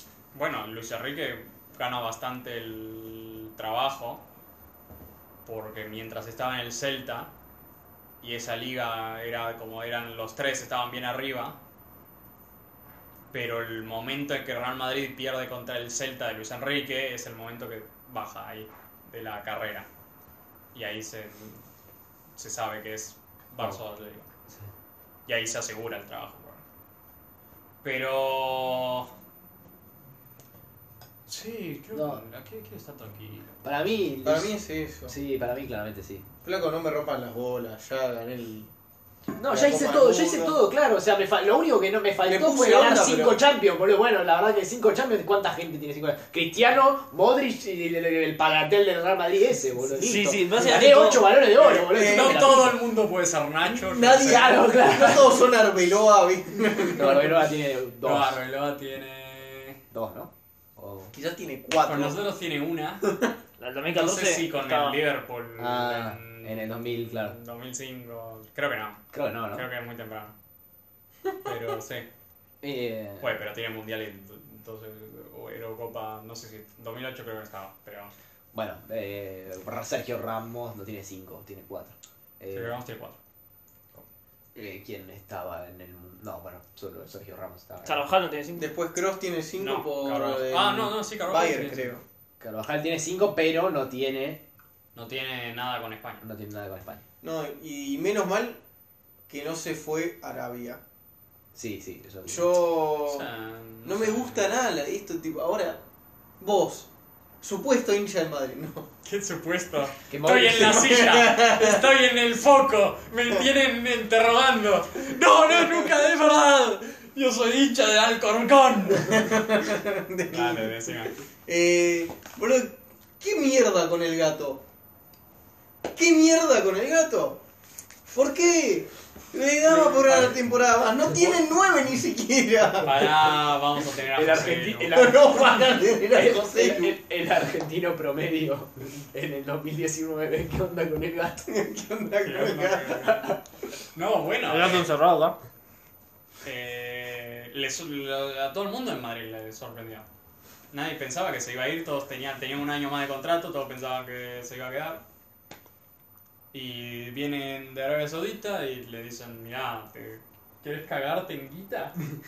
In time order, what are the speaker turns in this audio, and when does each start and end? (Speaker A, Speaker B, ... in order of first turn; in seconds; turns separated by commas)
Speaker A: 0.3-4.2, Speaker A: 5.4-7.3, Speaker A: 8.2-11.6, Speaker A: 13.3-19.9, Speaker A: 20.7-21.6, Speaker A: 22.4-24.3, Speaker A: 25.3-26.6, Speaker A: 27.8-29.1, Speaker A: 31.3-33.5, Speaker B: 31.9-32.2, Speaker B: 33.6-34.5, Speaker C: 34.2-35.1, Speaker B: 35.0-36.2, Speaker C: 36.4-38.7, Speaker B: 39.4-52.8, Speaker C: 39.5-40.6, Speaker C: 42.2-43.4, Speaker D: 50.0-51.3, Speaker C: 51.6-52.4, Speaker A: 51.6-54.6, Speaker B: 53.6-55.3, Speaker C: 54.8-57.4, Speaker B: 56.9-58.4, Speaker A: 58.0-59.8, Speaker B: 59.9-61.1, Speaker C: 61.1-62.2, Speaker A: 61.8-63.0, Speaker C: 63.0-63.3, Speaker D: 63.6-65.0, Speaker A: 63.9-70.3, Speaker B: 65.6-67.4, Speaker B: 69.1-69.7, Speaker A: 71.4-72.1, Speaker B: 72.6-73.3, Speaker A: 73.2-78.1, Speaker B: 78.5-82.8, Speaker A: 82.5-83.2, Speaker B: 84.5-88.0, Speaker D: 87.8-88.7, Speaker C: 88.6-92.0, Speaker A: 89.6-91.9, Speaker B: 92.4-94.4, Speaker A: 94.9-96.2, Speaker B: 96.2-97.0, Speaker C: 97.2-98.6, Speaker C: 99.3-100.8, Speaker B: 101.5-102.5, Speaker C: 102.3-103.3, Speaker A: 103.0-104.5, Speaker C: 103.8-105.8, Speaker C: 106.4-106.9, Speaker C: 107.4-108.9, Speaker A: 109.0-119.4, Speaker B: 110.1-110.9, Speaker C: 110.6-111.8, Speaker C: 119.0-124.6, Speaker A: 120.3-121.2, Speaker C: 125.9-127.4, Speaker C: 128.1-133.0, Speaker A: 129.7-130.3, Speaker A: 132.8-135.1, Speaker B: 134.1-141.5, Speaker C: 134.9-137.0, Speaker C: 141.4-143.4, Speaker A: 142.2-143.4, Speaker A: 143.9-144.9, Speaker D: 144.4-145.4, Speaker A: 146.4-150.1, Speaker A: 150.7-155.0, Speaker A: 156.5-161.9